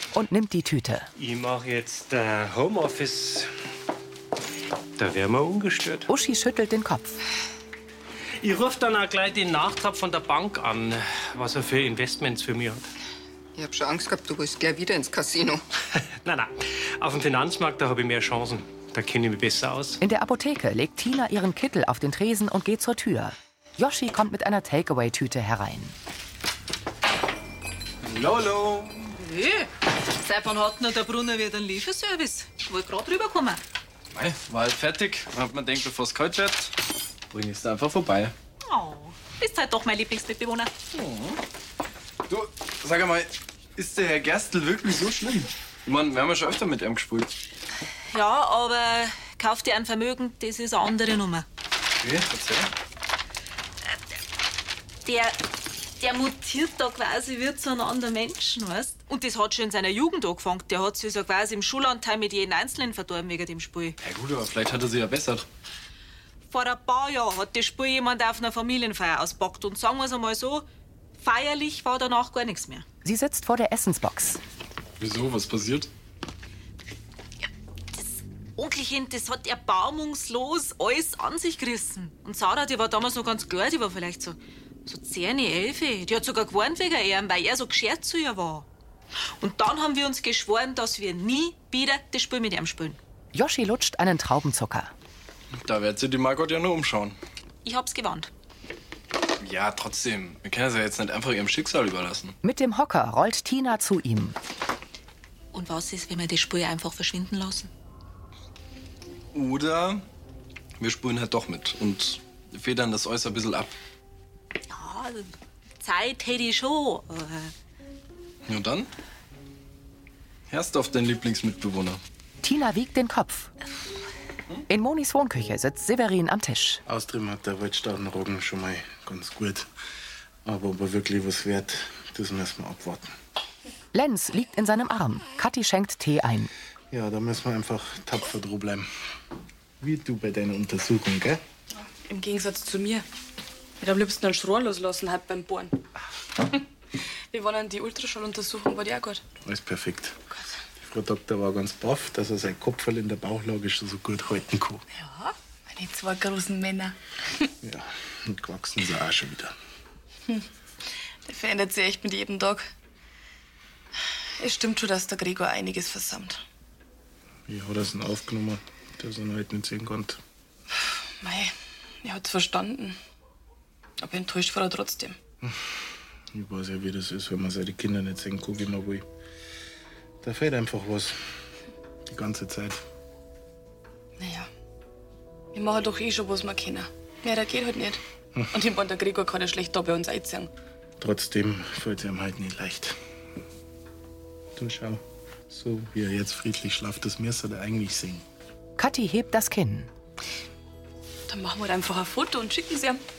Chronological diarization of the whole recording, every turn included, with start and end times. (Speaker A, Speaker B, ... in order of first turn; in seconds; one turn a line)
Speaker A: 0.1-1.1
Speaker B: 1.1-3.5
Speaker B: 5.0-6.1
Speaker A: 6.1-7.2
Speaker B: 8.4-12.9
Speaker C: 13.6-15.6
Speaker B: 16.2-20.0
Speaker A: 20.0-25.9
Speaker D: 28.0-29.1
Speaker E: 29.2-33.6
Speaker D: 34.1-36.7
Speaker D: 37.3-38.3
Speaker E: 38.6-40.7
Speaker D: 40.9-41.4
Speaker D: 42.3-47.3
Speaker E: 48.1-51.5
Speaker D: 52.0-52.7
Speaker E: 55.0-55.4
Speaker E: 56.0-64.0
Speaker D: 64.0-65.5
Speaker E: 66.5-70.7
Speaker E: 71.2-72.8
Speaker A: 73.0-74.4
Speaker D: 75.0-75.9
Speaker E: 78.0-88.7
Speaker E: 89.4-93.0
Speaker A: 93.3-94.9
Speaker D: 95.5-97.2
Speaker E: 97.6-98.3
Speaker D: 99.4-102.4
Speaker A: 102.4-104.3
Speaker E: 105.5-107.7
Speaker D: 109.3-110.0
Speaker D: 110.8-113.7
Speaker E: 114.7-117.5
Speaker D: 118.5-118.9
Speaker D: 120.5-122.0
Speaker A: 122.4-123.5
Speaker A: 124.7-126.8
Speaker F: 126.8-129.7
Speaker F: 130.4-133.1
Speaker A: 133.9-136.5
Speaker F: 136.9-138.9
Speaker F: 139.8-141.4
Speaker G: 142.0-143.1
Speaker G: 143.8-145.8
Speaker G: 147.3-149.2
Speaker F: 149.4-150.2
Speaker F: 150.8-154.8
Speaker G: 154.9-156.9
Speaker F: 157.6-159.6
Speaker G: 161.2-162.7
Speaker G: 164.4-166.4
Speaker F: 167.5-170.2
Speaker G: 171.2-173.0
Speaker G: 174.0-175.2
Speaker F: 176.3-179.1
Speaker F: 180.2-181.2
Speaker F: 182.1-182.8
Speaker G: 184.2-184.5
Speaker G: 185.5-188.0
Speaker G: 188.5-190.5
Speaker F: 191.0-193.0
Speaker F: 194.6-198.2
Speaker A: 198.8-199.9
Speaker G: 201.3-203.0